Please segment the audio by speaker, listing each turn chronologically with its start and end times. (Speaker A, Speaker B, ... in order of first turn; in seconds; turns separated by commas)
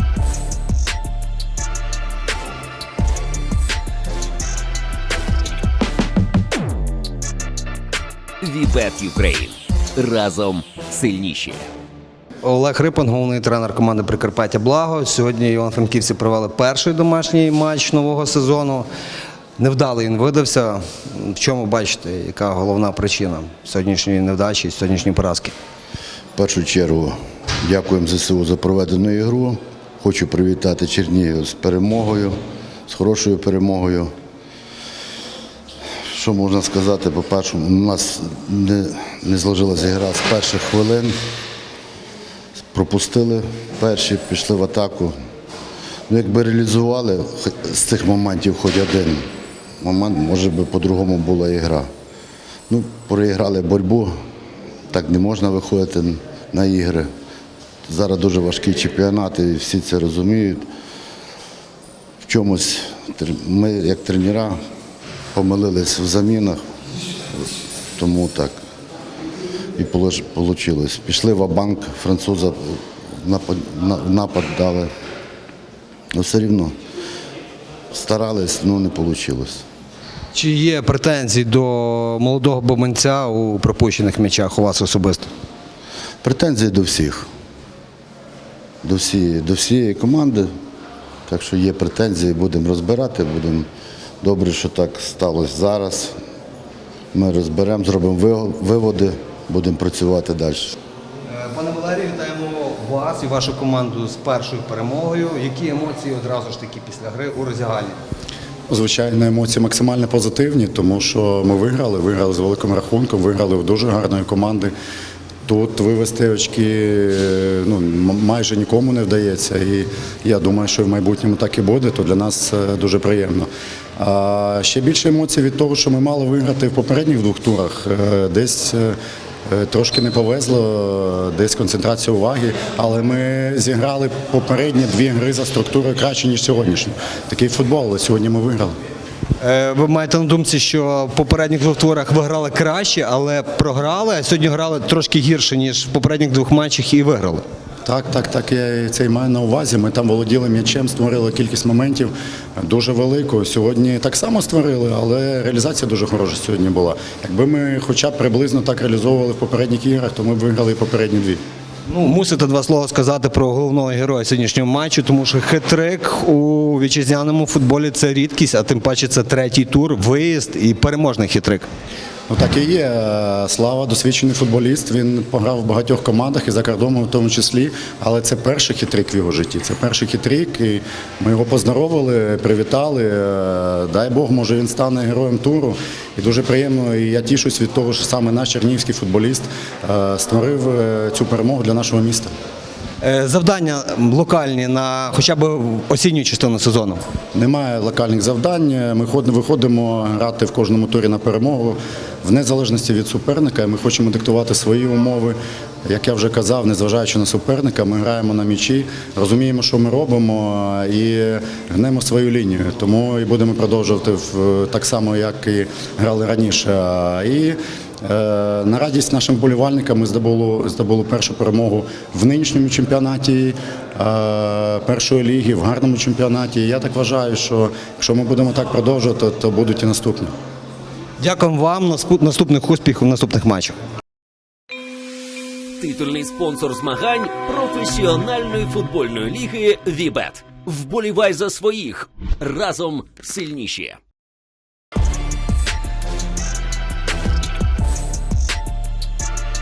Speaker A: 8.4-11.7, Speaker B: 12.4-18.9, Speaker B: 19.6-25.6, Speaker C: 26.4-32.4, Speaker C: 32.9-34.1, Speaker C: 36.1-41.2, Speaker C: 42.7-45.1, Speaker C: 46.1-49.3, Speaker C: 49.8-51.9, Speaker C: 52.7-54.1, Speaker C: 54.9-57.1, Speaker C: 57.9-60.7, Speaker C: 62.2-64.6, Speaker C: 65.3-66.6, Speaker C: 68.0-68.6, Speaker C: 69.8-74.9, Speaker C: 76.1-76.8, Speaker C: 77.9-79.6, Speaker B: 80.3-85.3, Speaker C: 86.2-87.3, Speaker C: 88.8-90.5, Speaker C: 91.3-93.7, Speaker C: 94.2-96.2, Speaker C: 97.1-100.8, Speaker B: 101.3-108.0, Speaker D: 108.7-114.7, Speaker D: 115.5-129.0, Speaker D: 129.5-138.8, Speaker B: 139.4-147.4, Speaker D: 147.9-161.4, Speaker B: 161.9-171.7, Speaker D: 172.3-192.3, Speaker B: 193.0-197.0, Speaker D: 197.3-230.3, Speaker B: 231.2-233.8, Speaker A: 235.8-244.0